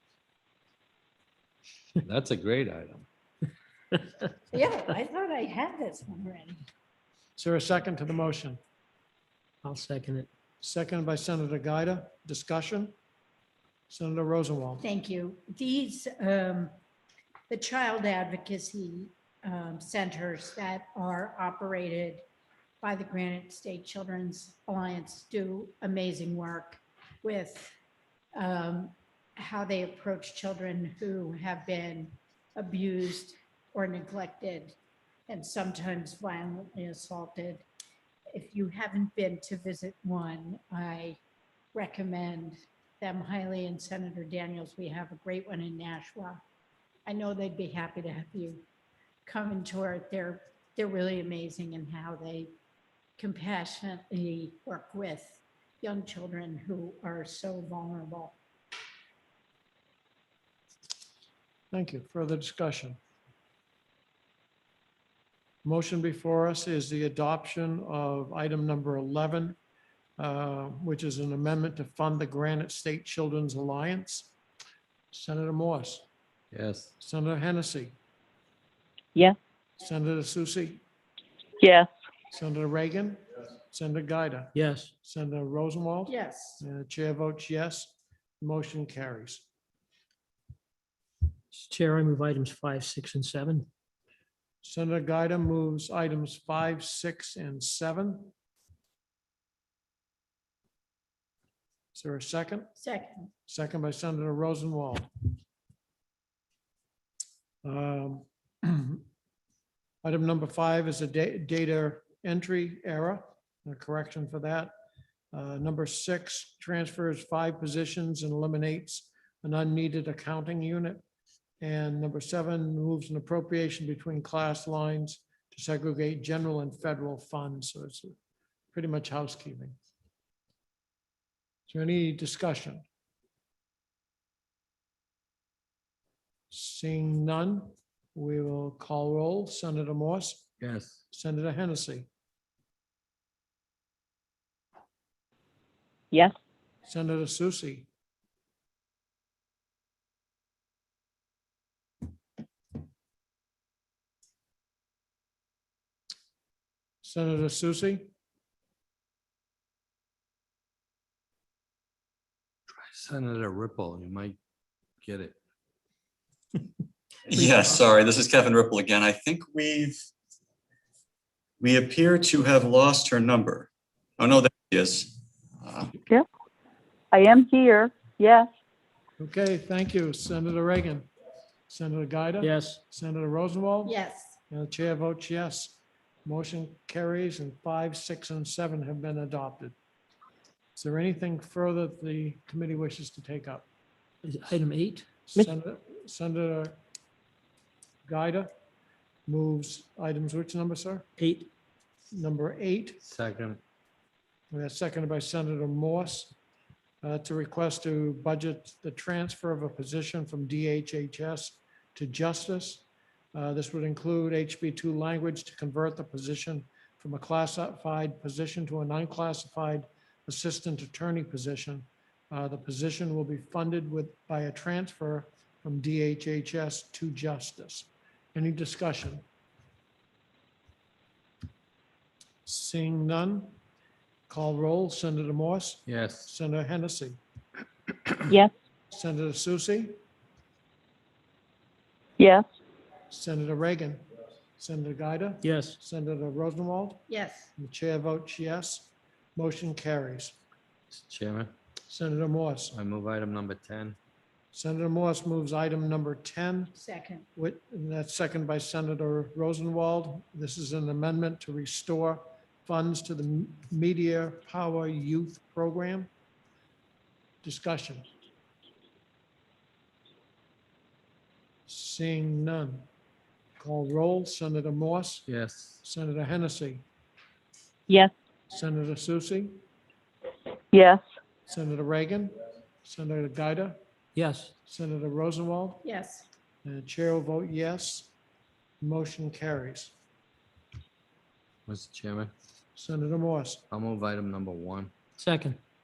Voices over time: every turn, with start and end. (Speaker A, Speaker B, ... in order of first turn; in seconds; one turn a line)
Speaker A: 2.0-3.1
Speaker B: 4.5-6.7
Speaker C: 7.4-8.6
Speaker D: 9.6-10.3
Speaker C: 10.6-12.9
Speaker C: 13.9-14.8
Speaker B: 14.8-16.7
Speaker B: 17.5-22.2
Speaker B: 22.8-27.7
Speaker B: 28.3-34.8
Speaker B: 35.3-37.6
Speaker B: 38.3-41.2
Speaker B: 41.7-46.4
Speaker B: 47.0-48.6
Speaker B: 49.2-52.5
Speaker B: 53.2-58.4
Speaker C: 61.7-63.0
Speaker C: 65.6-69.6
Speaker C: 70.2-74.3
Speaker C: 75.1-76.1
Speaker A: 76.5-76.9
Speaker C: 77.0-77.9
Speaker C: 79.8-80.8
Speaker E: 81.6-81.9
Speaker C: 82.3-89.4
Speaker D: 84.5-84.9
Speaker B: 86.1-86.6
Speaker D: 91.5-93.7
Speaker C: 94.6-98.3
Speaker C: 101.9-102.7
Speaker C: 103.5-105.1
Speaker C: 107.6-109.0
Speaker C: 110.0-114.7
Speaker C: 115.3-121.0
Speaker C: 121.6-128.1
Speaker C: 128.7-129.8
Speaker C: 131.7-132.8
Speaker C: 136.5-140.4
Speaker A: 140.6-141.0
Speaker C: 141.1-142.1
Speaker C: 146.8-147.9
Speaker C: 157.0-158.1
Speaker A: 162.7-164.4
Speaker A: 165.0-165.3
Speaker F: 167.3-170.1
Speaker F: 171.6-173.7
Speaker F: 174.2-175.9
Speaker E: 177.1-178.5
Speaker C: 179.2-181.1
Speaker C: 181.7-184.0
Speaker D: 182.4-182.8
Speaker B: 183.9-184.3
Speaker C: 184.5-189.7
Speaker C: 190.8-193.7
Speaker D: 194.2-195.5
Speaker C: 195.2-196.8
Speaker C: 198.1-198.5
Speaker C: 199.3-201.1
Speaker D: 201.2-201.5
Speaker C: 202.1-203.0
Speaker A: 203.0-203.6
Speaker C: 204.5-206.3
Speaker C: 207.0-229.2
Speaker C: 232.4-233.6
Speaker C: 234.3-237.2
Speaker A: 235.9-236.3
Speaker C: 238.9-239.9
Speaker E: 242.2-242.4
Speaker C: 243.1-244.0
Speaker C: 244.6-247.0
Speaker D: 245.4-245.8
Speaker B: 247.1-247.5
Speaker C: 247.6-250.4
Speaker A: 250.9-251.5
Speaker C: 251.9-252.8
Speaker A: 252.7-254.0
Speaker C: 254.5-256.7
Speaker B: 256.8-257.2
Speaker C: 257.4-266.1
Speaker C: 267.4-268.1
Speaker C: 271.7-272.9
Speaker C: 273.6-275.3
Speaker A: 275.3-275.8
Speaker C: 275.8-276.8
Speaker C: 278.5-279.6
Speaker E: 280.7-281.0
Speaker C: 281.5-283.8
Speaker D: 284.1-284.5
Speaker C: 284.6-285.8
Speaker B: 285.8-286.3
Speaker C: 286.6-288.1
Speaker C: 288.8-289.9
Speaker A: 291.7-292.3
Speaker C: 292.7-293.6
Speaker A: 293.7-294.9
Speaker D: 295.2-295.6